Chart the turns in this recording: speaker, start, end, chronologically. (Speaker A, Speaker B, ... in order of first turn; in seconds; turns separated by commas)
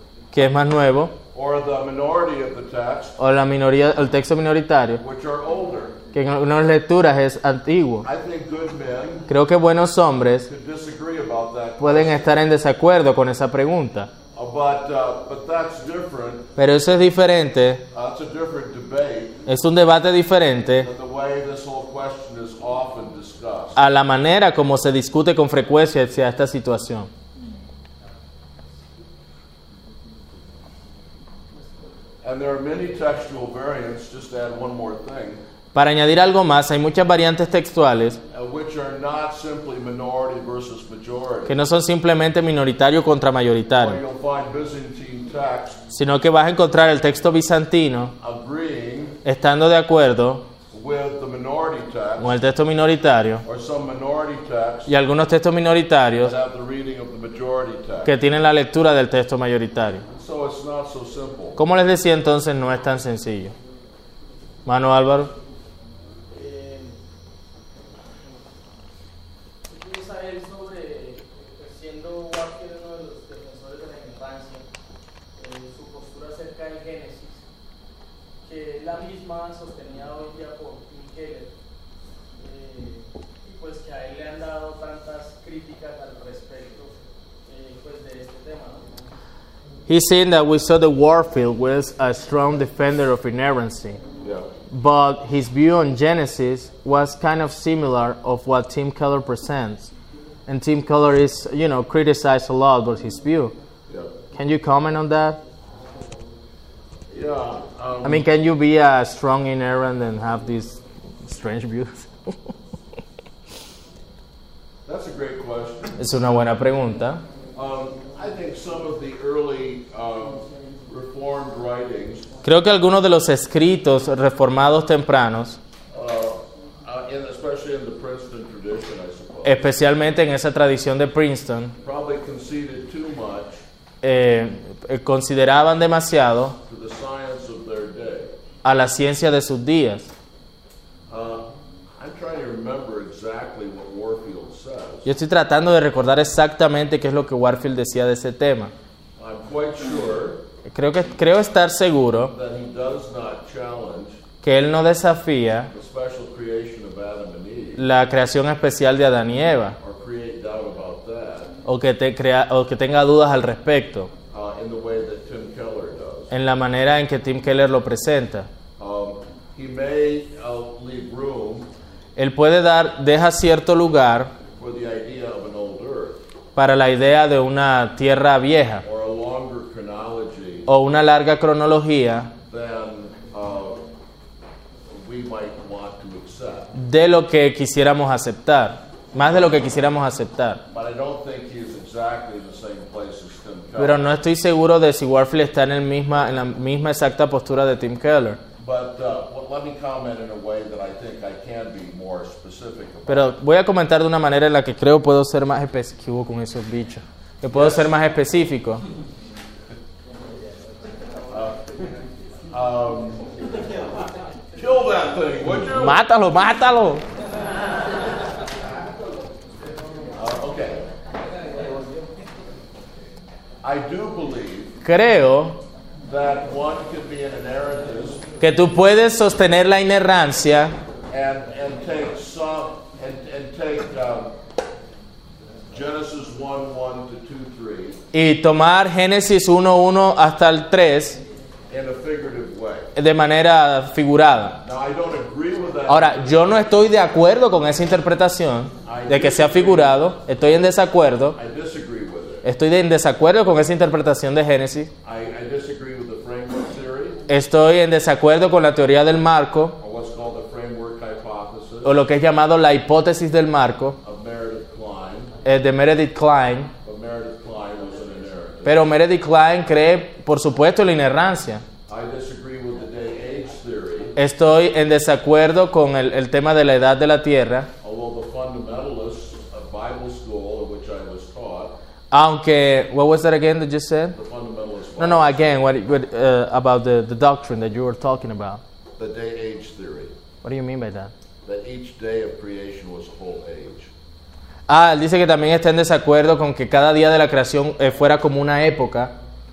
Speaker A: 0.3-1.1, Speaker B: 1.3-3.2, Speaker A: 3.2-5.0, Speaker B: 5.0-6.0, Speaker A: 6.1-8.1, Speaker B: 8.0-9.3, Speaker A: 9.3-10.5, Speaker B: 10.4-12.3, Speaker A: 11.8-14.1, Speaker B: 14.3-16.5, Speaker A: 16.6-17.8, Speaker B: 17.9-19.4, Speaker A: 19.5-20.9, Speaker B: 20.8-23.8, Speaker A: 23.8-27.1, Speaker B: 32.2-35.4, Speaker A: 35.7-38.2, Speaker B: 38.3-41.5, Speaker A: 41.5-44.0, Speaker B: 43.8-45.8, Speaker A: 45.9-48.1, Speaker B: 48.2-49.2, Speaker A: 49.2-50.5, Speaker B: 50.7-52.3, Speaker A: 52.2-53.4, Speaker B: 53.4-54.9, Speaker A: 54.9-56.4, Speaker B: 56.2-58.2, Speaker A: 58.0-60.0, Speaker B: 60.1-61.6, Speaker A: 61.6-63.5, Speaker A: 64.6-65.3, Speaker C: 66.3-67.0, Speaker C: 69.7-74.7, Speaker C: 75.3-77.4, Speaker C: 78.4-81.5, Speaker C: 82.4-86.9, Speaker C: 87.5-88.8, Speaker A: 89.9-94.0, Speaker B: 94.2-94.5, Speaker A: 94.7-99.9, Speaker A: 100.5-103.5, Speaker B: 103.9-104.1, Speaker A: 104.3-105.4, Speaker B: 107.1-108.2, Speaker A: 108.0-112.4, Speaker B: 114.8-116.0, Speaker A: 116.0-117.2, Speaker B: 117.5-122.3, Speaker A: 122.4-125.6, Speaker B: 125.9-129.6, Speaker A: 129.4-131.7, Speaker B: 131.8-133.6, Speaker A: 134.0-136.6, Speaker B: 136.7-138.3, Speaker A: 138.6-140.1, Speaker B: 141.1-141.4, Speaker B: 142.0-145.1, Speaker A: 145.0-148.7, Speaker B: 149.2-150.4, Speaker A: 150.7-152.3, Speaker B: 152.3-154.2, Speaker A: 154.4-155.7, Speaker B: 155.7-157.9, Speaker A: 157.8-159.8, Speaker B: 159.8-161.5, Speaker A: 161.6-164.1, Speaker B: 164.3-166.3, Speaker A: 166.3-168.5, Speaker B: 168.8-171.7, Speaker A: 172.2-174.3, Speaker B: 174.6-176.2, Speaker A: 176.6-178.8, Speaker B: 178.8-180.7, Speaker A: 180.7-182.3, Speaker B: 182.5-183.8, Speaker B: 184.9-186.7, Speaker A: 186.7-190.6, Speaker B: 190.7-194.1, Speaker A: 193.8-198.4, Speaker B: 198.6-203.3, Speaker A: 203.1-208.8, Speaker B: 207.5-207.9, Speaker B: 211.3-211.6, Speaker B: 212.5-213.2, Speaker B: 214.6-216.0, Speaker A: 215.7-217.0, Speaker B: 220.2-220.8, Speaker B: 223.6-224.8, Speaker A: 224.8-225.6, Speaker B: 226.1-228.2, Speaker A: 228.4-230.8, Speaker B: 231.1-234.3, Speaker B: 235.7-238.0, Speaker A: 238.1-241.2, Speaker B: 241.7-242.9, Speaker A: 242.9-244.6, Speaker B: 244.6-246.7, Speaker A: 245.9-251.4, Speaker B: 248.8-250.1, Speaker B: 251.3-252.4, Speaker A: 252.4-254.9, Speaker B: 255.0-257.2, Speaker A: 257.3-259.8, Speaker B: 259.8-262.0, Speaker A: 261.8-264.0, Speaker B: 264.0-265.3, Speaker A: 265.4-266.7, Speaker B: 266.8-268.9, Speaker A: 268.6-271.6, Speaker B: 271.9-274.1, Speaker A: 274.1-277.7, Speaker B: 277.8-281.7, Speaker A: 282.1-284.1, Speaker B: 284.1-285.7, Speaker A: 285.0-288.6, Speaker B: 289.0-290.1, Speaker A: 290.4-291.1, Speaker B: 291.4-293.9, Speaker A: 294.7-299.1